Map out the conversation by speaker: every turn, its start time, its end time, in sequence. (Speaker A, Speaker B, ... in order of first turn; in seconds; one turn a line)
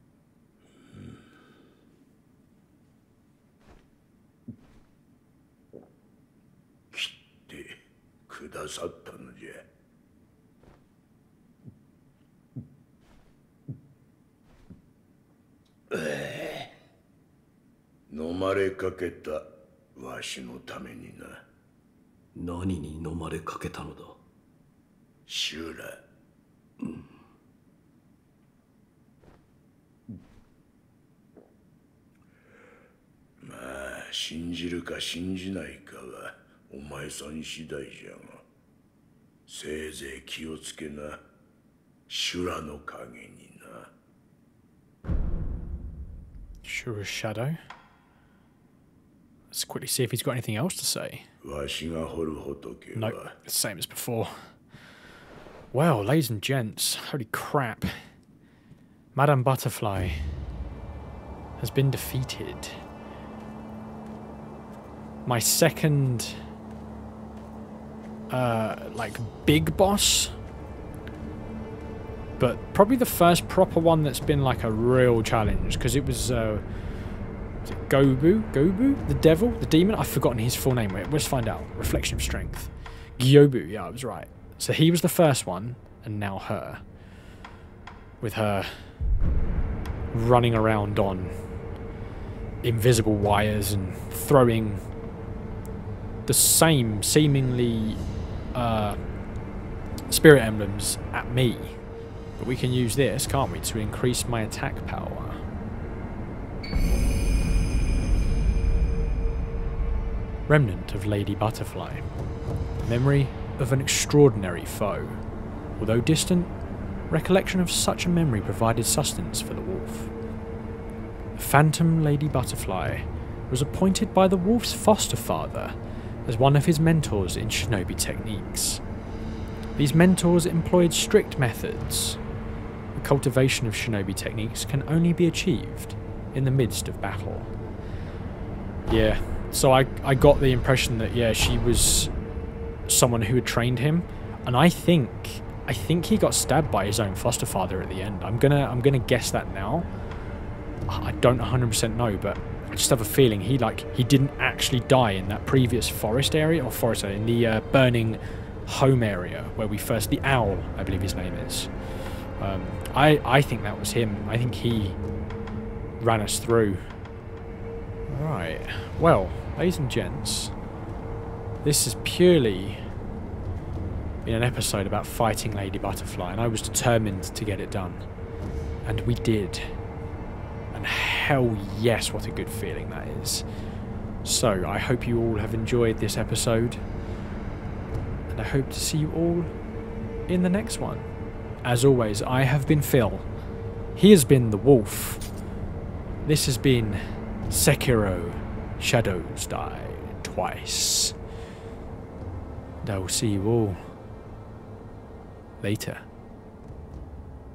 Speaker A: 6.9-9.7
Speaker A: 15.9-16.7
Speaker A: 18.1-21.4
Speaker B: 22.3-24.2
Speaker A: 25.3-26.0
Speaker B: 26.8-27.1
Speaker A: 33.4-38.4
Speaker A: 39.5-41.2
Speaker A: 42.1-43.9
Speaker C: 46.6-47.6
Speaker C: 49.5-51.2
Speaker A: 51.4-53.3
Speaker C: 52.9-54.3
Speaker C: 55.7-57.9
Speaker C: 59.1-60.2
Speaker C: 61.6-62.8
Speaker C: 65.2-66.4
Speaker C: 68.3-70.3
Speaker C: 72.4-76.6
Speaker C: 77.6-86.8
Speaker C: 88.2-88.8
Speaker C: 90.1-91.3
Speaker C: 92.6-94.8
Speaker C: 96.3-98.0
Speaker C: 98.5-99.0
Speaker C: 100.1-101.8
Speaker C: 102.4-105.4
Speaker C: 110.5-112.0
Speaker C: 112.8-115.2
Speaker C: 115.8-116.5
Speaker C: 117.1-120.1
Speaker C: 121.4-128.8
Speaker C: 129.8-132.2
Speaker C: 132.9-137.5
Speaker C: 138.9-142.1
Speaker C: 142.9-149.9
Speaker C: 150.9-161.7
Speaker C: 162.4-165.0
Speaker C: 166.0-166.9
Speaker C: 168.1-170.5
Speaker C: 171.6-172.8
Speaker C: 174.2-178.0
Speaker C: 178.8-179.6
Speaker C: 180.7-183.4
Speaker C: 184.2-186.8
Speaker C: 188.3-189.5
Speaker C: 190.3-191.1
Speaker C: 191.6-193.2
Speaker C: 193.9-195.2
Speaker C: 196.2-201.2
Speaker C: 202.8-203.8
Speaker C: 205.6-206.0